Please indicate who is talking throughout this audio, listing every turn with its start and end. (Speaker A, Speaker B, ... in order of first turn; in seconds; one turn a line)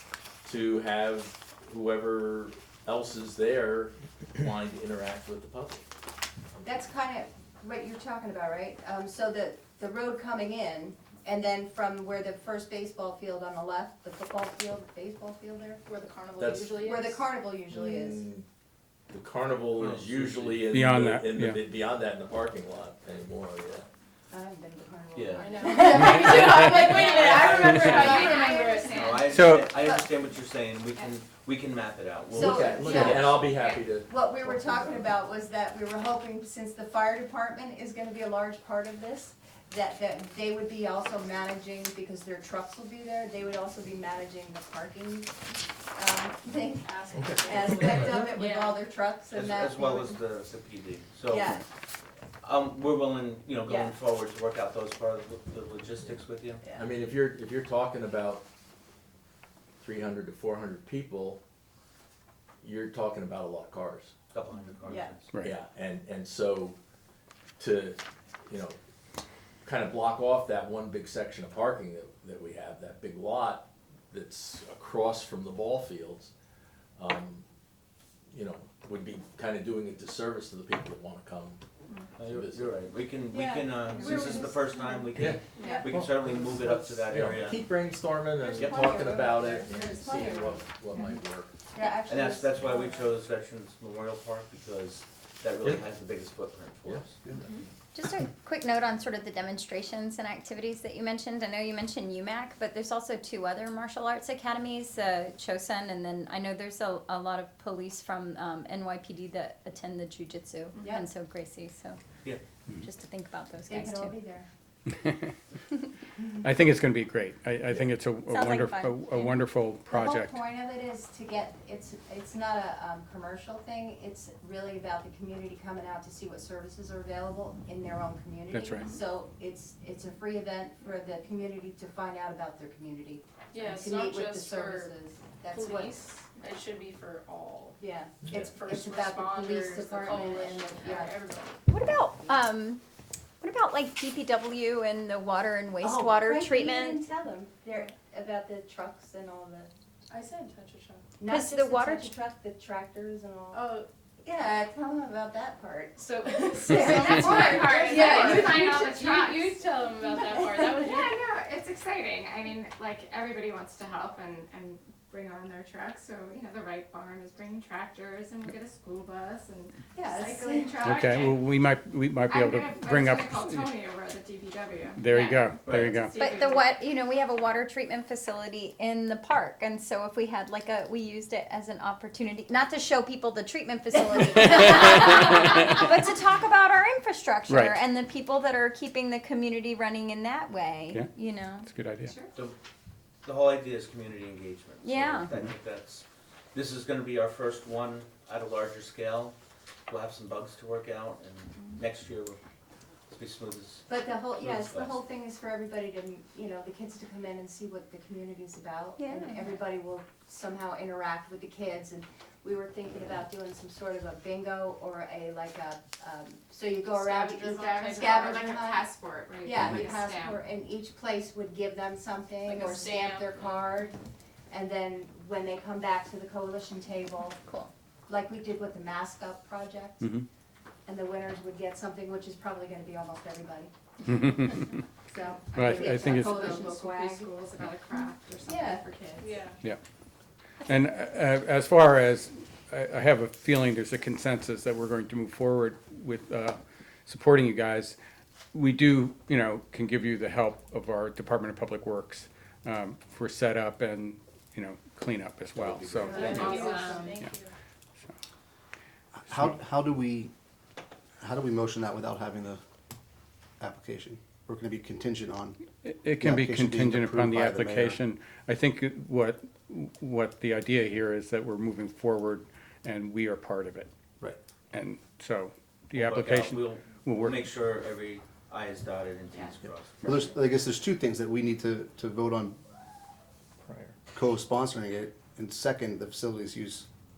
Speaker A: 0.4-5.8
Speaker B: 6.6-15.8
Speaker C: 15.8-17.2
Speaker A: 16.4-17.0
Speaker B: 16.7-18.2
Speaker A: 17.7-18.5
Speaker A: 19.1-23.9
Speaker D: 19.7-20.7
Speaker E: 20.7-21.6
Speaker B: 24.3-30.1
Speaker D: 25.1-25.7
Speaker C: 25.3-29.1
Speaker F: 26.9-29.2
Speaker D: 28.9-33.3
Speaker E: 29.3-29.7
Speaker B: 32.3-45.3
Speaker A: 32.3-35.1
Speaker B: 46.0-50.2
Speaker C: 46.8-48.7
Speaker A: 47.1-48.2
Speaker D: 49.3-51.6
Speaker B: 51.2-51.6
Speaker D: 52.4-56.6
Speaker B: 53.6-54.0
Speaker B: 56.6-56.9
Speaker A: 56.8-58.4
Speaker A: 59.8-61.4
Speaker A: 62.6-64.1
Speaker D: 64.3-65.3
Speaker B: 64.8-65.1
Speaker A: 65.4-66.8
Speaker A: 67.6-68.8
Speaker A: 69.6-76.3
Speaker A: 77.0-77.4
Speaker A: 78.3-81.6
Speaker D: 82.2-87.7
Speaker A: 82.2-82.7
Speaker B: 83.3-85.0
Speaker C: 83.9-84.7
Speaker A: 85.1-91.5
Speaker B: 85.6-85.9
Speaker F: 85.6-85.8
Speaker B: 88.4-90.7
Speaker D: 88.5-89.0
Speaker B: 91.7-93.1
Speaker D: 92.0-97.2
Speaker G: 97.9-112.0
Speaker B: 110.8-111.1
Speaker G: 112.8-114.2
Speaker B: 113.7-114.5
Speaker E: 115.0-115.3
Speaker E: 116.4-120.4
Speaker G: 118.3-119.5
Speaker B: 119.8-136.3
Speaker E: 128.5-129.0
Speaker C: 133.5-134.9
Speaker C: 135.5-137.8
Speaker B: 137.8-141.3
Speaker C: 138.5-141.5
Speaker G: 141.7-142.8
Speaker B: 141.9-142.3
Speaker G: 143.4-147.0
Speaker B: 145.8-149.7
Speaker C: 150.1-151.0
Speaker B: 151.2-161.1
Speaker G: 151.3-152.2
Speaker C: 153.5-153.9
Speaker C: 156.0-161.0
Speaker F: 156.7-159.6
Speaker F: 160.6-171.3
Speaker B: 169.9-170.8
Speaker E: 170.8-173.7
Speaker F: 172.3-176.7
Speaker E: 175.0-176.2
Speaker D: 175.6-176.1
Speaker G: 176.2-191.7
Speaker E: 184.3-184.8
Speaker E: 187.5-187.8
Speaker E: 190.9-192.2
Speaker F: 192.0-192.3
Speaker D: 193.2-199.3
Speaker G: 194.8-195.4
Speaker D: 199.9-202.4
Speaker D: 203.1-203.8
Speaker B: 203.9-223.9
Speaker D: 204.4-205.0
Speaker G: 209.0-209.6
Speaker C: 216.9-218.7
Speaker F: 218.5-220.4
Speaker C: 222.4-223.5
Speaker B: 224.5-227.4
Speaker B: 228.1-230.1
Speaker E: 230.0-230.3
Speaker B: 230.8-233.7
Speaker E: 234.0-234.7
Speaker B: 235.1-237.4
Speaker E: 235.5-236.4
Speaker F: 235.7-239.3
Speaker B: 237.9-238.8
Speaker C: 239.2-239.6
Speaker E: 240.7-248.0
Speaker E: 248.5-256.5
Speaker D: 255.6-256.7
Speaker B: 255.9-257.2
Speaker C: 256.1-257.5
Speaker F: 256.1-257.1
Speaker H: 259.1-260.3
Speaker H: 261.2-262.6
Speaker H: 263.6-265.6
Speaker E: 265.8-273.9
Speaker H: 266.2-268.0
Speaker E: 274.7-277.5
Speaker D: 275.9-280.2
Speaker F: 279.3-279.6
Speaker H: 280.0-282.6
Speaker A: 283.6-283.9
Speaker H: 284.1-286.9